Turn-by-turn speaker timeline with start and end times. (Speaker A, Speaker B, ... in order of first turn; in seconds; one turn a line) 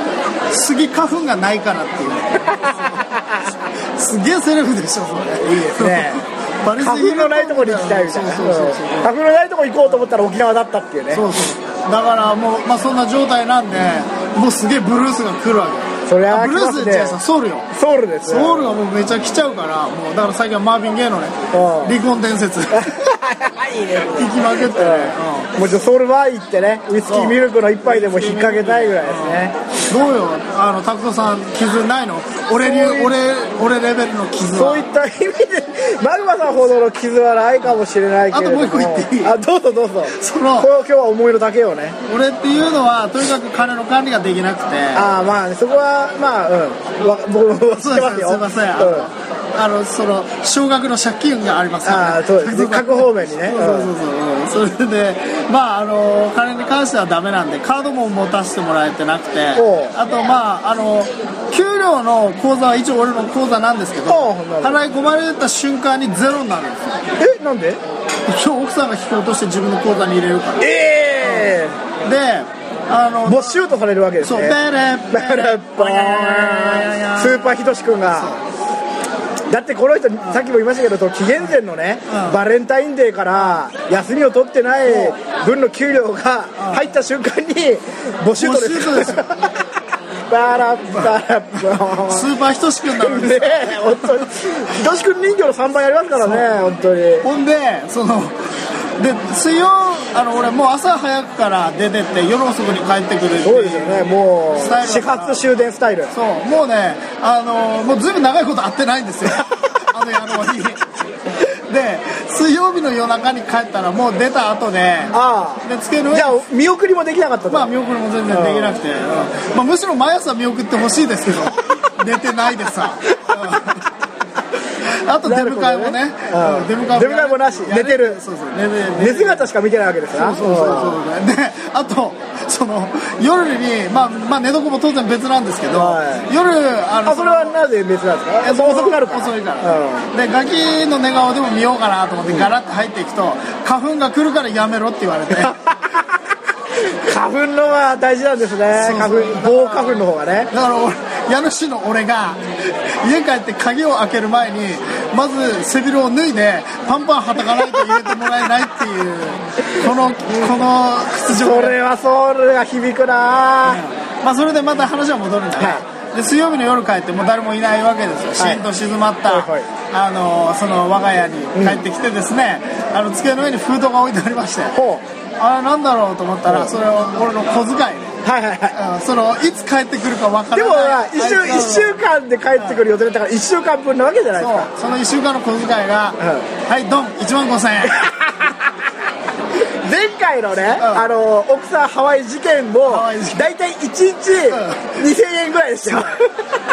Speaker A: 0.5-3.0
Speaker B: 2.5-3.4
Speaker A: 3.9-9.1
Speaker B: 5.4-11.2
Speaker A: 11.1-17.7
Speaker B: 16.1-17.2
Speaker B: 17.7-18.8
Speaker A: 18.2-23.0
Speaker B: 21.5-22.0
Speaker B: 22.7-29.5
Speaker A: 24.1-25.5
Speaker A: 27.1-34.8
Speaker B: 32.5-33.2
Speaker B: 34.4-42.0
Speaker A: 38.3-39.3
Speaker A: 40.1-40.7
Speaker A: 42.1-45.1
Speaker B: 44.9-49.1
Speaker A: 47.7-67.0
Speaker B: 51.8-53.9
Speaker B: 59.5-59.9
Speaker B: 64.1-64.8
Speaker B: 67.2-67.8
Speaker A: 68.2-73.6
Speaker B: 70.6-71.7
Speaker B: 73.2-78.3
Speaker A: 74.2-77.5
Speaker A: 78.1-78.4
Speaker B: 79.5-89.5
Speaker A: 82.1-82.4
Speaker A: 86.6-86.8
Speaker A: 88.4-89.5
Speaker B: 90.3-92.3
Speaker A: 92.0-94.3
Speaker B: 92.9-97.3
Speaker A: 96.2-96.5
Speaker A: 97.2-98.3
Speaker A: 99.0-105.4
Speaker B: 103.4-106.1
Speaker A: 106.1-116.4
Speaker B: 115.1-117.7
Speaker A: 117.5-123.8
Speaker B: 118.3-118.8
Speaker A: 124.8-129.5
Speaker B: 125.2-128.2
Speaker B: 128.9-131.0
Speaker A: 130.1-137.6
Speaker B: 135.7-136.3
Speaker B: 137.0-140.1
Speaker A: 138.4-145.5
Speaker B: 145.3-146.0
Speaker B: 146.7-150.5
Speaker A: 148.7-161.7
Speaker B: 157.4-158.1
Speaker B: 161.3-163.8
Speaker A: 163.6-174.7
Speaker B: 168.4-168.6
Speaker B: 169.2-169.7
Speaker B: 171.5-171.8
Speaker B: 174.7-175.0
Speaker A: 175.4-178.2
Speaker B: 176.4-176.7
Speaker B: 178.2-178.8
Speaker A: 178.7-182.0
Speaker B: 180.5-184.7
Speaker A: 182.5-182.8
Speaker A: 184.4-188.1
Speaker B: 186.2-186.4
Speaker B: 187.8-188.6
Speaker B: 189.6-196.3
Speaker A: 190.8-191.1
Speaker A: 192.9-193.5
Speaker A: 194.5-195.0